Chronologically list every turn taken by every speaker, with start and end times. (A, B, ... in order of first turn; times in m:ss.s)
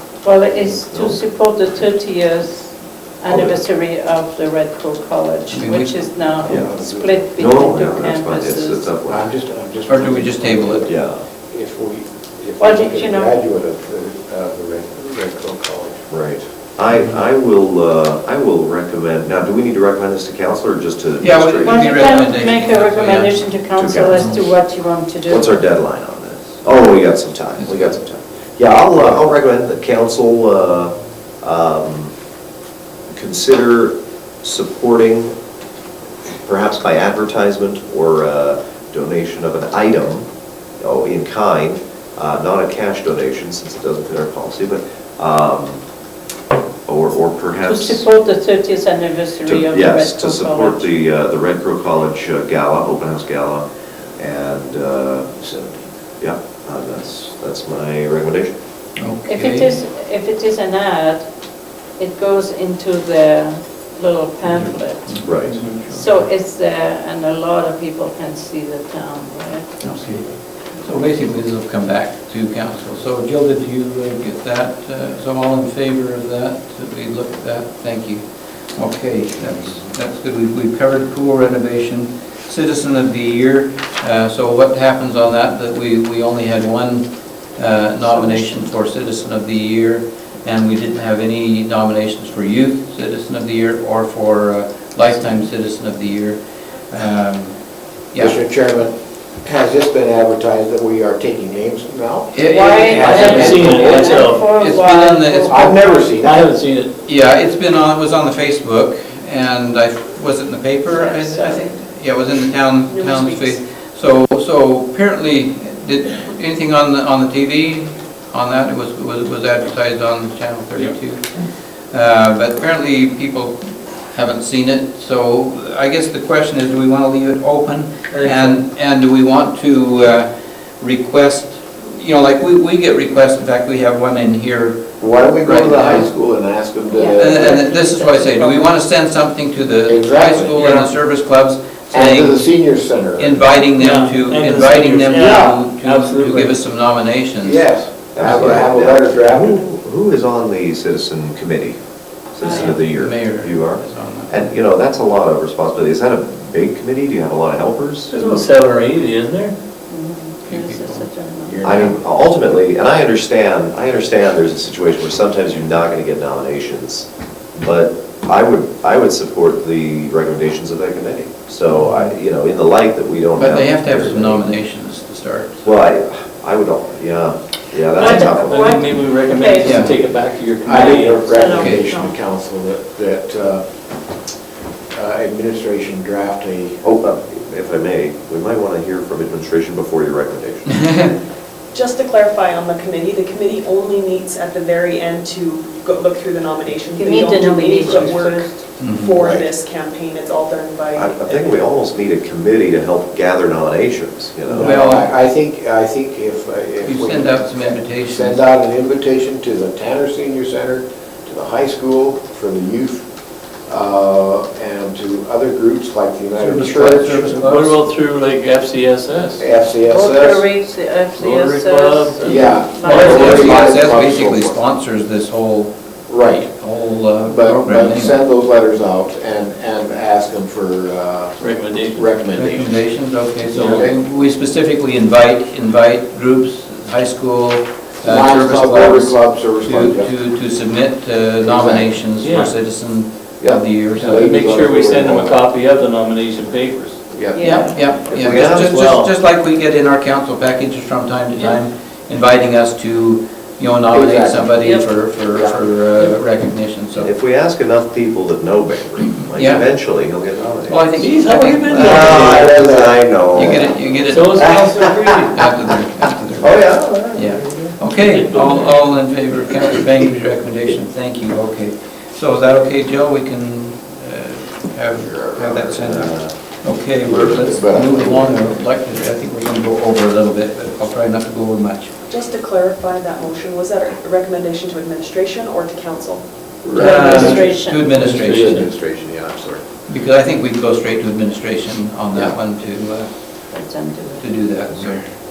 0:00.2-0:08.9 A
0:00.9-0:01.2 B
0:03.3-0:03.6 B
0:05.5-0:06.1 C
0:06.4-0:08.1 D
0:07.4-0:09.3 B
0:09.1-0:11.0 D
0:09.9-0:10.9 C
0:10.9-0:11.2 B
0:11.5-0:16.1 D
0:12.6-0:13.3 A
0:16.1-0:22.3 B
0:21.2-0:23.5 C
0:21.6-0:25.6 A
0:23.7-0:24.4 B
0:25.3-0:32.1 B
0:27.6-0:28.0 C
0:28.9-0:29.4 D
0:33.1-0:35.3 B
0:36.5-0:40.3 B
0:40.8-0:45.8 B
0:46.9-0:48.0 B
0:47.6-0:50.9 A
0:49.4-0:53.7 B
0:54.2-0:55.5 B
0:55.5-0:55.8 D
0:56.2-0:58.5 B
0:59.0-0:59.8 C
0:59.3-1:01.3 A
1:02.0-1:05.2 A
1:04.4-1:05.8 C
1:05.2-1:05.6 B
1:05.5-1:05.8 E
1:05.9-1:10.2 A
1:09.8-1:36.4 C
1:28.1-1:28.4 A
1:36.9-1:37.6 C
1:38.1-1:38.4 C
1:38.2-1:44.3 D
1:42.3-1:45.7 C
1:42.5-1:45.9 A
1:43.4-1:44.4 E
1:45.5-1:46.4 D
1:46.2-1:46.9 E
1:47.0-2:16.1 C
1:51.0-1:51.6 A
1:52.9-1:53.6 F
2:08.1-2:08.6 E
2:15.0-2:17.6 D
2:16.9-2:18.7 A
2:17.2-2:22.4 C
2:19.9-2:20.8 D
2:21.9-2:23.6 D
2:23.2-2:27.7 C
2:23.8-2:26.6 E
2:25.1-2:25.6 D
2:27.4-2:29.6 D
2:28.2-2:31.8 B
2:28.2-2:28.7 C
2:32.3-2:38.3 B
2:32.4-2:34.5 C
2:38.1-2:39.6 E
2:39.9-2:41.6 A
2:40.5-2:41.1 C
2:41.5-2:42.2 D
2:41.6-2:54.5 B
2:51.7-2:52.1 C
2:53.4-2:55.7 C
2:55.6-2:58.7 B
2:58.0-2:59.9 A
2:58.0-3:01.4 E
2:59.6-3:00.0 C
3:00.6-3:03.6 D
3:00.7-3:02.2 A
3:01.4-3:01.8 C
3:04.9-3:06.8 D
3:06.8-3:10.9 B
3:10.7-3:11.1 C
3:11.7-3:21.6 F
3:17.0-3:18.6 A
3:18.8-3:19.2 C
3:19.2-3:19.4 D
3:21.0-3:24.8 B
3:24.5-3:33.0 D
3:24.6-3:25.1 C
3:26.8-3:28.4 C
3:33.7-3:37.3 D
3:36.4-3:37.8 C
3:37.3-3:39.4 E
3:39.4-3:40.5 D
3:39.9-3:43.6 A
3:41.2-3:43.7 E
3:42.2-3:44.6 D
3:42.9-3:45.7 C
3:46.1-3:46.5 D
3:46.6-3:48.2 C
3:47.2-3:52.8 D
3:51.4-3:52.2 E
3:52.3-4:04.2 C
3:53.5-3:53.9 E
3:53.5-3:54.0 D
3:58.0-4:00.1 D
4:01.4-4:02.0 D
4:02.2-4:02.6 E
4:03.4-4:05.4 D
4:04.0-4:07.0 E
4:07.1-4:07.9 D
4:07.4-4:07.8 A
4:07.4-4:17.1 C
4:08.1-4:08.8 B
4:08.6-4:09.1 E
4:13.9-4:14.6 D
4:14.6-4:14.9 A
4:15.3-4:15.6 D
4:17.0-4:20.9 B
4:19.2-4:19.7 C
4:20.7-4:22.5 C
4:21.0-4:22.6 E
4:21.8-4:23.7 D
4:21.8-4:25.2 B
4:23.3-4:24.6 C
4:24.1-4:25.4 E
4:25.3-4:41.9 C
4:26.4-4:27.8 B
4:28.0-4:28.8 E
4:34.9-4:36.2 D
4:36.0-4:36.3 B
4:37.0-4:38.6 D
4:42.1-4:46.2 F
4:46.6-4:49.6 D
4:46.8-4:48.7 C
4:46.8-4:47.9 A
4:47.0-4:47.4 E
4:49.9-4:53.1 C
4:53.5-4:54.3 A
4:54.2-4:55.1 C